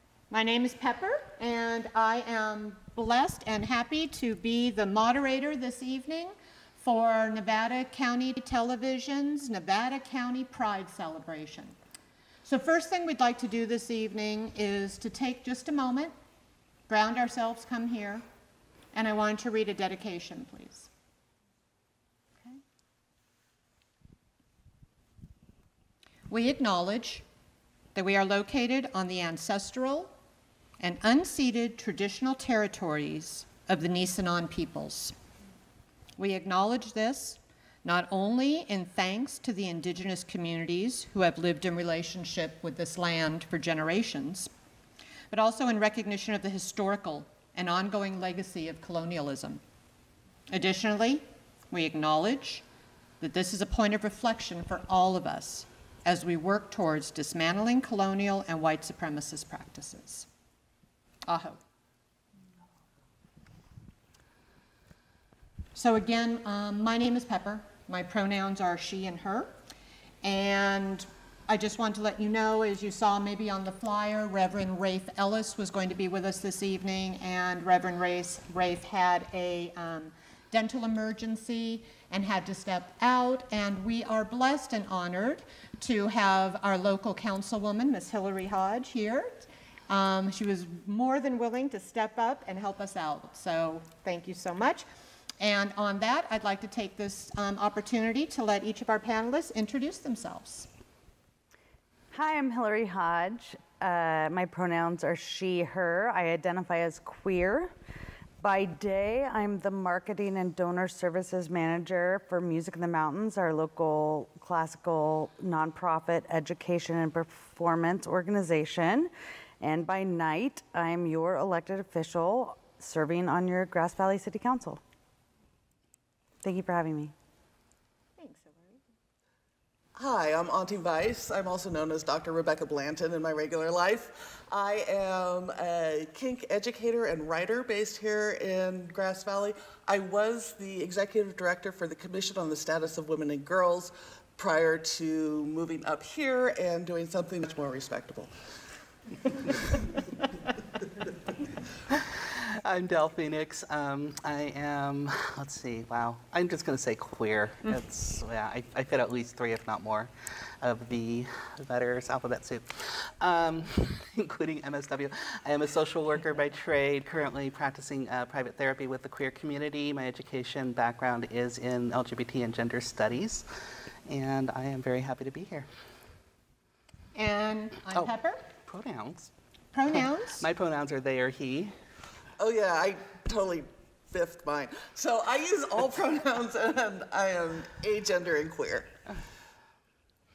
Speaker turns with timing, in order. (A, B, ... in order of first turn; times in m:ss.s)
0:00.3-0:11.8 A
0:12.4-0:16.2 A
0:16.9-0:18.2 A
0:18.9-0:20.9 A
0:26.3-0:27.2 A
0:28.0-0:30.1 A
0:30.8-0:35.2 A
0:36.2-0:44.5 A
0:45.3-0:49.6 A
0:50.5-0:52.6 A
0:53.2-1:00.3 A
1:01.3-1:01.6 A
1:05.8-1:09.5 A
1:10.2-1:34.8 A
1:35.4-1:40.7 A
1:42.1-1:47.7 B
1:48.4-2:04.8 B
2:06.4-2:07.1 B
2:08.2-2:08.8 A
2:10.0-2:28.3 C
2:31.9-2:40.1 D
2:40.6-2:53.5 D
2:54.1-2:55.7 D
2:57.2-2:58.5 A
2:58.7-2:59.3 D
2:59.7-3:00.5 A
2:59.9-3:01.8 D
3:02.4-3:08.9 C